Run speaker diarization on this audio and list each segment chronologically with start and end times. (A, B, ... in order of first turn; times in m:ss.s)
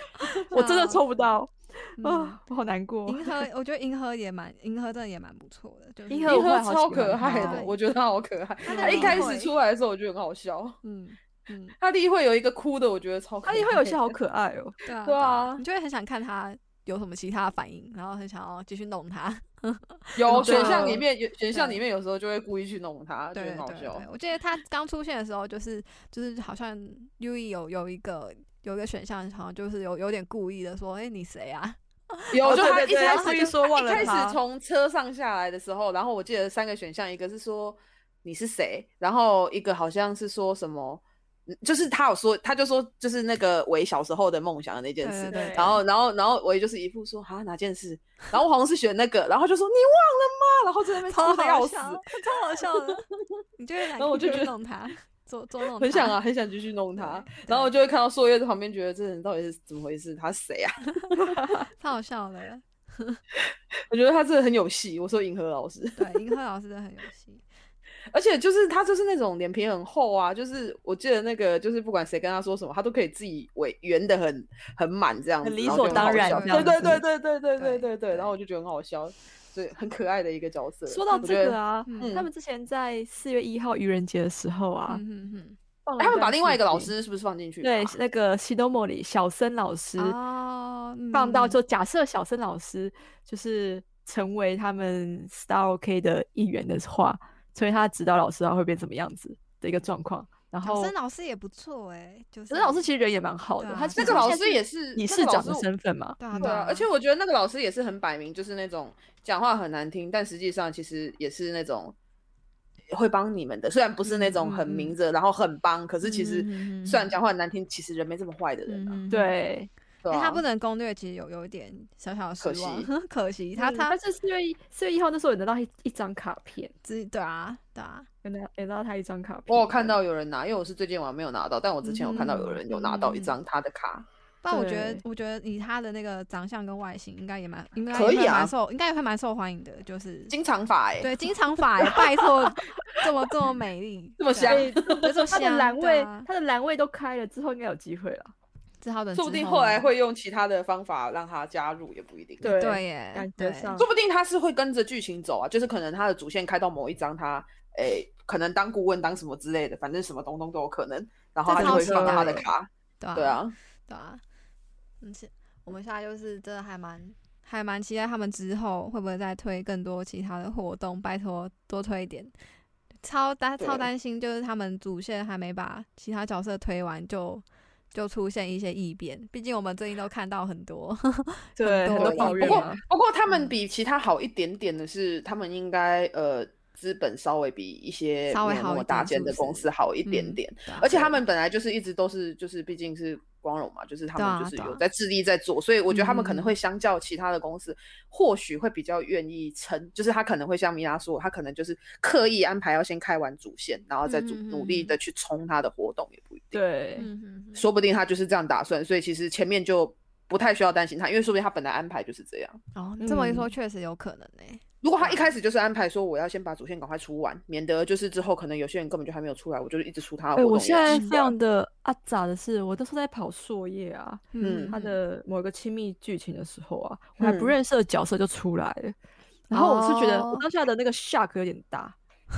0:00.3-0:01.2 A
0:00.5-0:03.5 B
0:02.0-0:02.4 A
0:03.0-0:06.5 A
0:06.1-0:07.6 B
0:06.2-0:10.8 C
0:07.2-0:07.8 A
0:08.6-0:09.5 A
0:08.7-0:09.3 B
0:10.8-0:11.8 A
0:11.8-0:14.1 C
0:13.4-0:14.8 B
0:14.8-0:21.8 A
0:15.0-0:15.6 C
0:20.2-0:24.1 C
0:20.3-0:21.0 B
0:23.3-0:34.2 A
0:32.3-0:53.0 C
0:32.4-0:34.4 B
0:45.0-0:45.8 A
0:45.3-0:45.8 B
0:51.1-0:53.0 A
0:53.6-0:56.2 A
0:54.0-0:54.5 C
0:55.8-1:01.2 C
0:57.0-0:57.7 A
1:01.0-1:03.2 A
1:01.3-1:01.6 B
1:03.4-1:06.2 C
1:06.0-1:07.4 A
1:08.1-1:22.3 C
1:15.4-1:17.0 B
1:15.7-1:18.3 A
1:20.9-1:25.0 B
1:21.1-1:22.2 A
1:24.9-1:25.6 A
1:25.8-1:26.9 B
1:26.0-1:28.0 C
1:27.6-1:30.2 B
1:30.0-1:31.6 A
1:31.1-1:40.9 B
1:40.6-1:42.8 A
1:42.5-1:46.5 B
1:43.6-1:44.4 A
1:44.0-1:45.7 C
1:46.2-1:46.9 A
1:46.3-1:52.0 C
1:52.9-1:59.0 C
1:54.0-1:54.9 A
1:56.0-1:57.1 A
1:58.7-1:59.3 A
1:59.1-1:59.7 B
2:00.0-2:00.4 C
2:00.0-2:04.0 A
2:02.4-2:02.9 C
2:03.6-2:06.7 B
2:06.8-2:08.1 A
2:08.2-2:09.9 B
2:09.5-2:14.0 C
2:11.8-2:13.3 A
2:14.4-2:20.3 A
2:14.5-2:15.0 B
2:17.9-2:18.5 C
2:20.3-2:21.1 C
2:21.0-2:26.3 A
2:24.2-2:25.0 C
2:24.4-2:28.3 B
2:28.8-2:29.9 A
2:29.1-2:32.5 C
2:32.4-2:33.9 B
2:32.5-2:33.7 A
2:33.8-2:43.5 C
2:41.5-2:42.4 A
2:41.5-2:42.5 B
2:43.0-2:44.2 A
2:45.0-2:52.3 A
2:53.0-3:02.7 A
2:53.6-2:53.9 C
3:01.6-3:02.8 B
3:01.9-3:26.6 C
3:03.3-3:03.5 A
3:08.3-3:11.2 A
3:14.2-3:14.8 A
3:15.9-3:16.5 A
3:24.0-3:24.9 A
3:26.5-3:27.1 B
3:27.0-3:27.6 A
3:27.5-3:32.6 C
3:32.7-3:35.3 A
3:33.0-3:33.5 B
3:34.8-3:41.3 C
3:40.4-3:49.0 B
3:40.8-3:41.3 A
3:44.3-3:45.0 A
3:44.4-3:44.7 C
3:47.2-3:47.5 C
3:49.5-3:52.0 B
3:49.5-3:50.4 A